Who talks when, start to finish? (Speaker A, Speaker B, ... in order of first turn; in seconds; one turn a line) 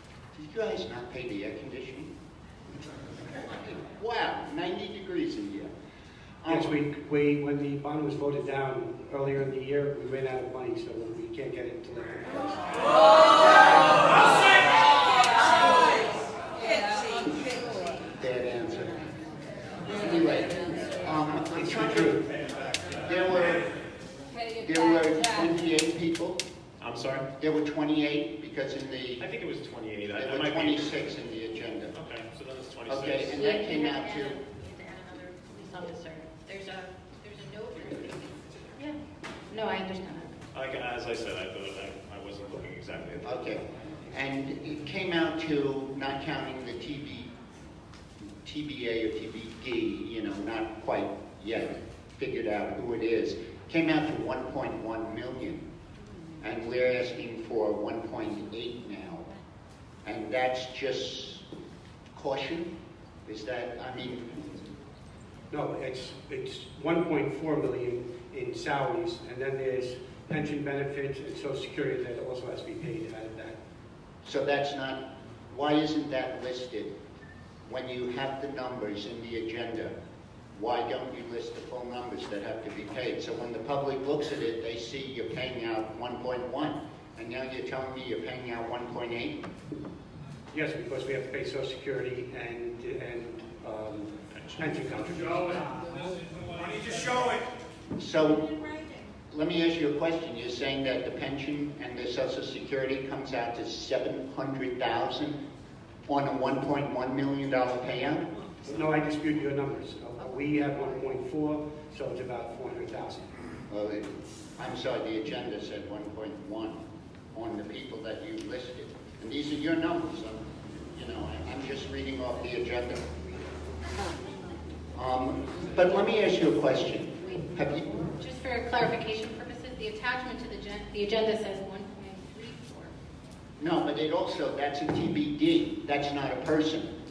Speaker A: 0.3-2.1
Speaker A: 3.6-5.7
Speaker B: 6.5-14.8
Speaker A: 18.2-19.0
Speaker A: 19.8-22.0
Speaker B: 21.5-22.2
Speaker A: 23.0-23.6
Speaker A: 24.6-26.4
Speaker C: 26.8-27.3
Speaker A: 27.4-29.2
Speaker C: 29.2-31.1
Speaker A: 30.1-31.9
Speaker C: 31.9-33.6
Speaker A: 32.9-34.4
Speaker D: 33.3-39.0
Speaker D: 39.5-40.3
Speaker C: 40.5-43.4
Speaker A: 43.2-47.3
Speaker A: 48.4-55.6
Speaker A: 56.4-59.3
Speaker A: 60.0-61.5
Speaker A: 62.1-62.7
Speaker A: 63.2-64.4
Speaker B: 65.5-73.6
Speaker A: 74.2-76.9
Speaker A: 77.7-79.9
Speaker A: 80.5-89.4
Speaker B: 90.5-95.8
Speaker C: 94.3-94.6
Speaker A: 98.0-98.5
Speaker A: 99.3-105.4
Speaker A: 106.1-108.3
Speaker B: 108.6-113.4
Speaker A: 113.7-123.5
Speaker A: 124.9-128.0
Speaker D: 128.2-132.9
Speaker A: 133.6-136.9